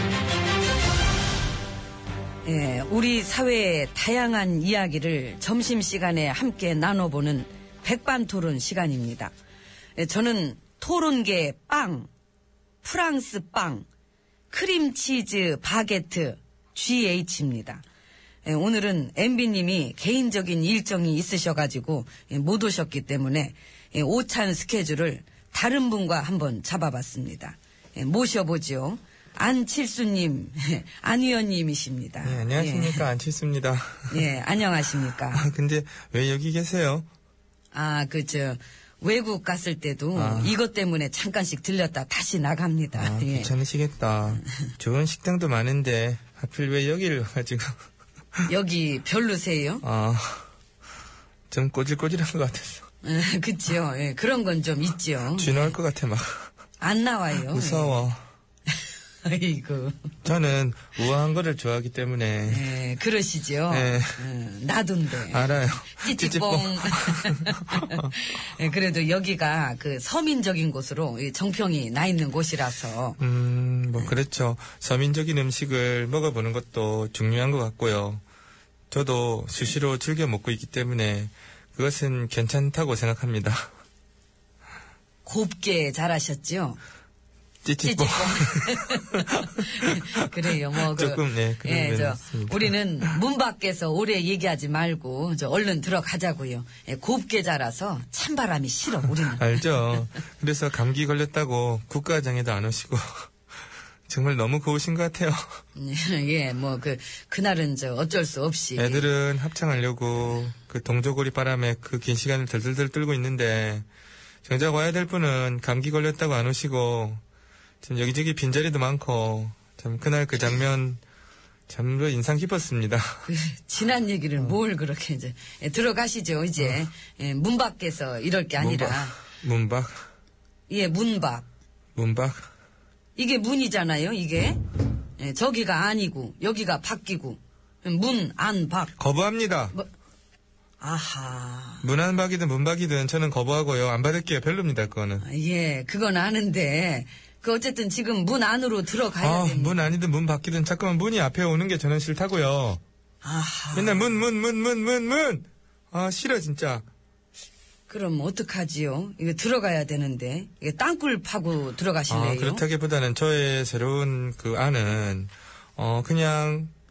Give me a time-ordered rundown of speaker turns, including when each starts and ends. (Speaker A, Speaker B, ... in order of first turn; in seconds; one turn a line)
Speaker A: 2.5-9.3
Speaker A: 10.0-12.1
Speaker A: 12.8-13.9
Speaker A: 14.5-17.8
Speaker A: 18.4-33.1
Speaker B: 32.2-34.3
Speaker A: 34.1-35.5
Speaker B: 35.3-37.1
Speaker A: 37.7-43.5
Speaker B: 40.1-40.6
Speaker B: 43.0-47.8
Speaker A: 44.4-44.7
Speaker A: 48.5-49.8
Speaker B: 49.8-50.5
Speaker B: 51.5-52.9
Speaker A: 53.0-55.7
Speaker B: 55.3-56.5
Speaker A: 56.8-58.0
Speaker B: 57.5-58.2
Speaker A: 59.2-60.2
Speaker B: 60.2-62.7
Speaker A: 62.5-73.2
Speaker B: 63.7-64.2
Speaker B: 65.3-68.1
Speaker B: 73.2-78.2
Speaker B: 78.9-83.7
Speaker A: 85.2-86.8
Speaker B: 87.6-90.3
Speaker A: 87.8-99.9
Speaker B: 90.8-93.2
Speaker B: 99.2-103.3
Speaker B: 104.1-105.6
Speaker A: 105.8-109.1
Speaker B: 108.8-113.9
Speaker B: 114.5-117.2
Speaker B: 117.8-121.0
Speaker B: 121.7-123.3
Speaker A: 123.3-129.2
Speaker B: 128.6-130.0
Speaker A: 130.7-131.5
Speaker B: 132.0-132.5
Speaker A: 133.2-134.6
Speaker A: 135.2-138.9
Speaker B: 139.0-139.8
Speaker A: 140.8-141.9
Speaker B: 141.8-145.2
Speaker A: 145.2-149.9
Speaker B: 149.2-152.8
Speaker A: 153.2-154.2
Speaker B: 153.7-156.8
Speaker A: 157.9-162.6
Speaker B: 162.1-166.7